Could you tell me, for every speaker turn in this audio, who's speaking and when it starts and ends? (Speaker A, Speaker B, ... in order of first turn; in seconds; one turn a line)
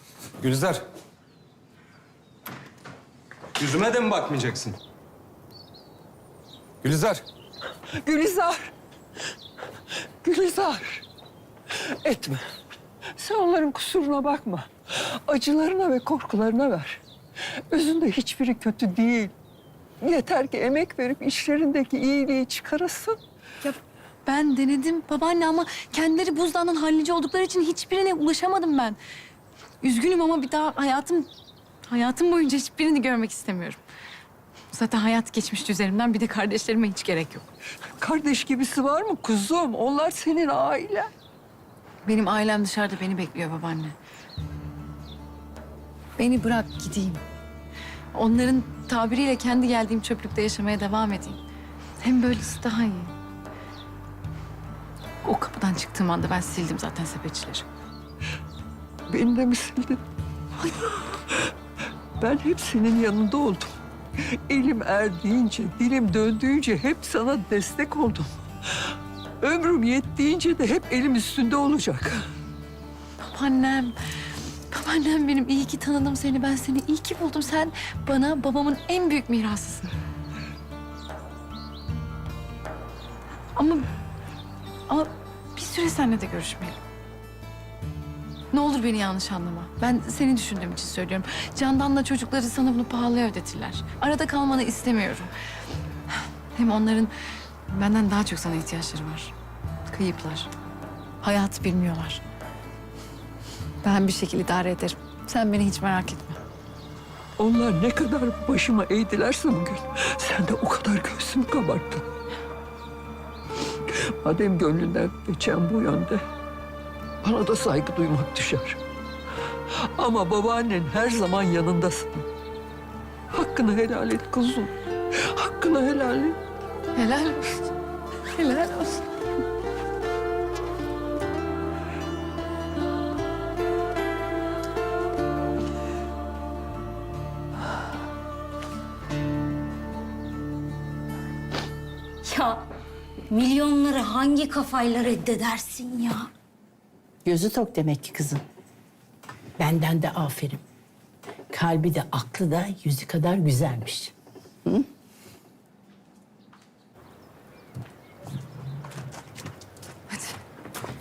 Speaker A: 0.4-0.8
Speaker A: 3.6-4.8
Speaker A: 6.8-7.2
Speaker B: 8.0-8.7
Speaker B: 10.2-11.0
Speaker B: 11.7-12.4
Speaker B: 13.2-17.0
Speaker B: 17.7-19.3
Speaker B: 20.0-23.2
Speaker C: 23.6-29.0
Speaker C: 29.8-31.3
Speaker C: 31.9-33.8
Speaker C: 34.7-37.5
Speaker B: 38.0-41.1
Speaker C: 42.0-44.0
Speaker C: 46.2-47.2
Speaker C: 48.1-51.4
Speaker C: 52.0-53.1
Speaker C: 55.2-57.7
Speaker B: 59.1-60.0
Speaker B: 60.6-61.5
Speaker B: 62.2-72.3
Speaker C: 73.3-74.0
Speaker C: 74.7-79.9
Speaker C: 83.6-83.9
Speaker C: 84.9-86.8
Speaker C: 88.5-95.3
Speaker C: 96.5-97.1
Speaker C: 97.7-99.3
Speaker C: 99.9-100.5
Speaker C: 101.2-102.2
Speaker C: 103.8-106.4
Speaker B: 107.4-112.0
Speaker B: 113.9-116.2
Speaker B: 117.2-118.8
Speaker B: 119.9-122.3
Speaker B: 123.3-126.4
Speaker C: 127.0-127.7
Speaker C: 128.3-129.1
Speaker D: 142.2-142.7
Speaker D: 143.3-146.3
Speaker E: 147.2-148.4
Speaker E: 149.6-150.6
Speaker E: 151.5-154.1